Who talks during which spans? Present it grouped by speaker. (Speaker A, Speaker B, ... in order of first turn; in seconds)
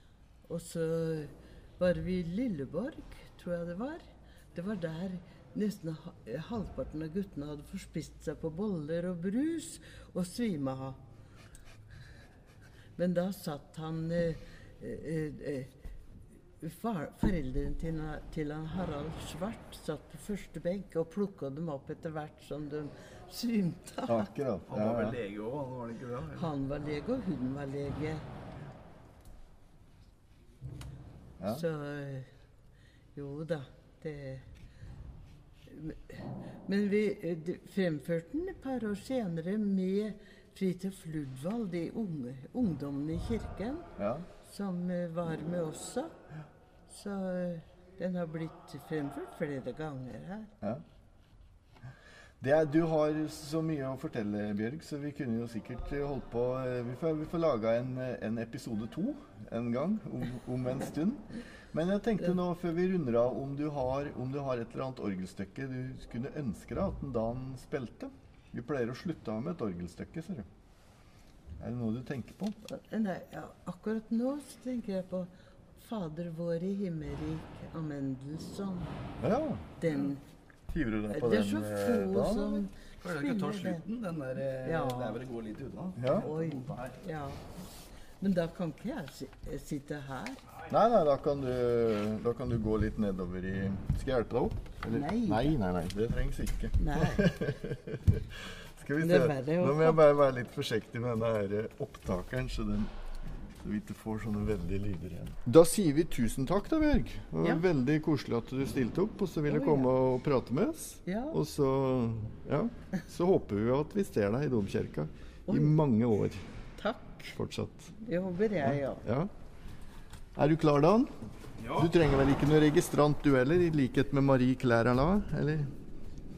Speaker A: 0.5-11.0, 13.0-15.8, 16.6-24.3, 26.3-28.3, 31.4-32.3, 33.1-34.5, 35.7-46.1, 46.9-50.5, 72.7-78.9, 79.8-80.2, 81.1-83.8, 84.6-85.2, 86.2-87.5, 88.2-90.4, 94.8-95.6, 96.8-97.3, 99.0-100.0, 109.5-109.9, 111.1-111.4, 115.5-115.8, 116.8-117.3, 118.0-119.0
Speaker B: 24.1-25.2, 31.4-31.6, 44.0-44.3, 52.4-70.5, 71.6-72.6, 79.2-79.8, 80.7-82.7, 86.0-86.3, 90.7-102.9, 103.6-116.4, 117.3-117.9, 118.6-119.3, 120.3-121.1, 121.7-125.7
Speaker C: 24.7-26.5, 83.0-87.0, 121.6-121.9